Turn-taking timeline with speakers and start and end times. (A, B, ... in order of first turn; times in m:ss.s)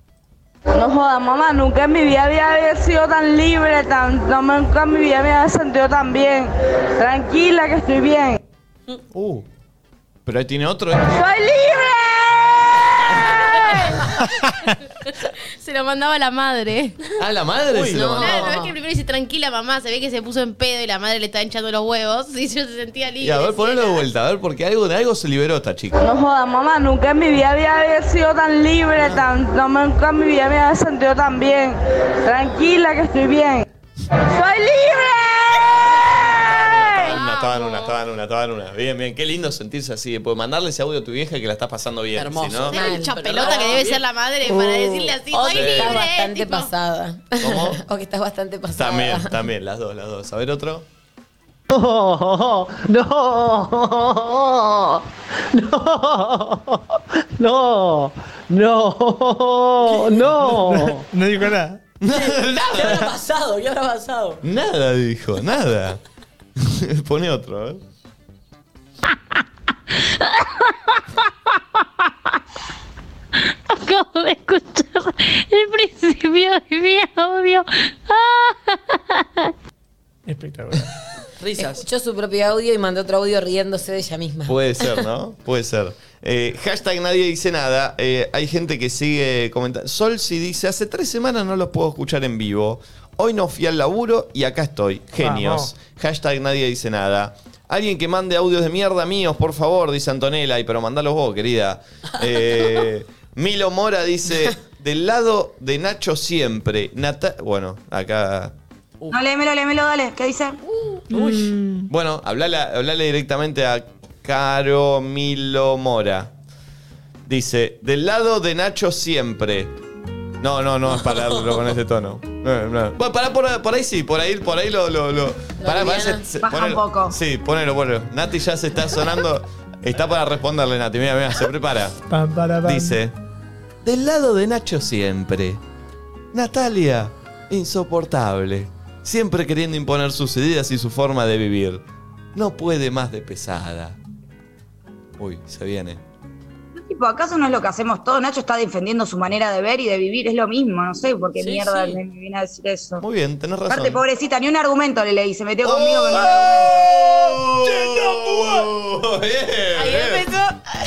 0:00.7-0:08.4 A
0:09.1-0:09.4 B
0:10.2-0:11.2 B
0:11.1-0:12.5 A
0:13.5-0:14.4 C
0:15.2-0:17.0 C
0:17.2-0:18.4 B
0:17.7-0:18.0 D
0:17.9-0:18.8 E
0:18.2-0:24.1 C
0:23.2-0:26.1 B
0:26.0-0:33.6 A
0:34.3-0:35.8 A
0:36.4-0:42.8 B
0:37.1-0:37.9 C
0:42.2-0:44.0 D
0:42.7-0:46.7 C
0:42.7-0:43.1 E
0:44.5-0:49.4 E
0:45.5-0:46.0 B
0:47.4-0:47.8 B
0:48.8-0:50.9 B
0:51.7-1:01.1 F
0:59.9-1:00.1 D
1:00.4-1:01.8 G
1:02.0-1:03.1 B
1:02.1-1:04.4 D
1:04.4-1:06.0 B
1:06.6-1:07.8 B
1:13.8-1:17.6 H
1:20.3-1:20.8 G
1:21.4-1:21.8 D
1:21.6-1:24.6 E
1:24.4-1:48.5 B
1:35.2-1:35.7 G
1:49.1-1:50.6 I
1:51.1-1:51.9 G
1:51.1-1:51.5 D
1:51.9-1:56.3 B
1:57.2-1:59.7 B
2:00.4-2:12.0 B
2:01.0-2:01.6 D
2:05.6-2:06.2 E
2:06.4-2:07.2 I
2:12.1-2:13.0 G
2:12.6-2:13.1 B
2:13.8-2:15.6 B
2:16.3-2:21.8 B
2:22.3-2:24.0 B
2:25.2-2:26.0 B
2:26.8-2:33.0 I
2:31.4-2:32.0 D
2:33.0-2:34.0 B
2:33.7-2:36.9 I
2:35.6-2:40.3 B
2:39.8-2:40.6 E